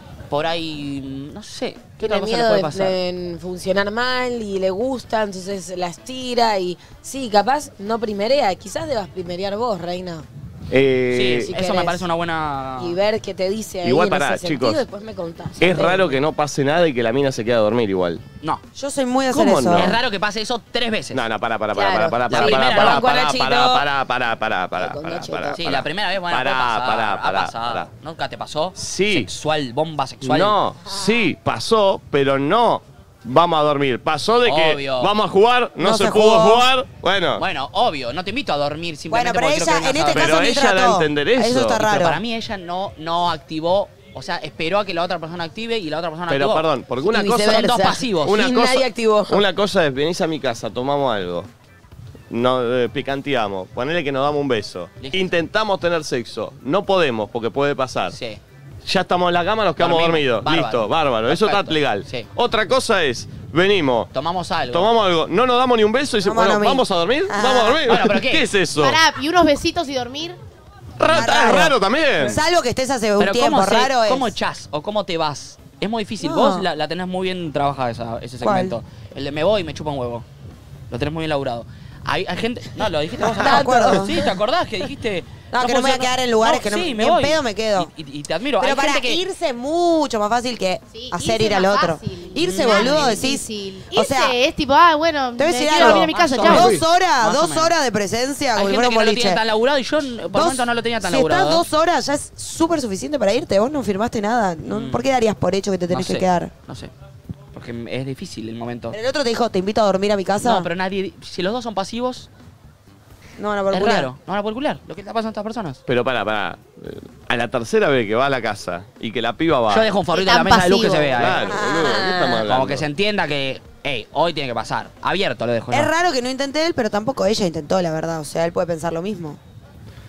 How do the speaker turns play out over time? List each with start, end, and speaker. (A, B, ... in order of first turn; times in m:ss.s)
0:00.3-0:03.0 A
0:02.0-0:10.3 B
0:10.7-0:11.5 C
0:11.1-0:13.0 A
0:11.5-0:12.1 B
0:12.8-0:16.2 B
0:13.8-0:14.8 C
0:15.6-0:18.2 C
0:18.8-0:20.0 D
0:19.3-0:20.0 C
0:19.7-0:21.2 A
0:21.1-0:27.9 C
0:21.7-0:23.4 B
0:22.3-0:23.8 A
0:24.8-0:25.6 B
0:25.6-0:30.6 A
0:28.8-0:29.3 C
0:30.2-0:37.4 C
0:34.4-0:35.1 A
0:35.8-0:36.7 D
0:37.4-0:40.4 A
0:39.1-0:42.2 D
0:40.2-0:41.9 C
0:41.8-0:46.6 A
0:46.3-0:51.5 C
0:47.0-0:49.4 B
0:47.3-0:48.4 A
0:52.3-0:58.2 C
0:58.1-0:58.4 A
0:58.9-1:04.1 C
0:59.8-1:02.3 A
1:04.1-1:04.9 A
1:04.7-1:09.0 C
1:06.2-1:07.8 D
1:07.9-1:08.4 A
1:08.8-1:10.4 E
1:11.0-1:12.4 C
1:11.0-1:14.3 D
1:13.2-1:20.3 A
1:16.2-1:16.7 D
1:18.4-1:18.8 D
1:20.9-1:29.2 A
1:23.2-1:24.3 D
1:25.5-1:27.9 D
1:28.6-1:34.4 D
1:30.9-1:36.8 E
1:32.4-1:33.2 A
1:35.4-1:39.4 D
1:35.8-1:37.7 A
1:38.6-1:41.7 A
1:40.3-1:46.5 D
1:44.7-1:45.0 A
1:45.9-1:46.9 A
1:47.5-1:49.0 A
1:48.9-1:50.7 D
1:50.4-1:52.3 A
1:53.4-1:54.1 D
1:53.7-1:55.8 A
1:55.9-1:59.9 C
1:59.7-2:01.4 A
2:00.1-2:01.2 E
2:01.1-2:02.8 C
2:01.5-2:02.4 B
2:01.5-2:02.0 D
2:02.5-2:05.9 A
2:05.7-2:09.4 D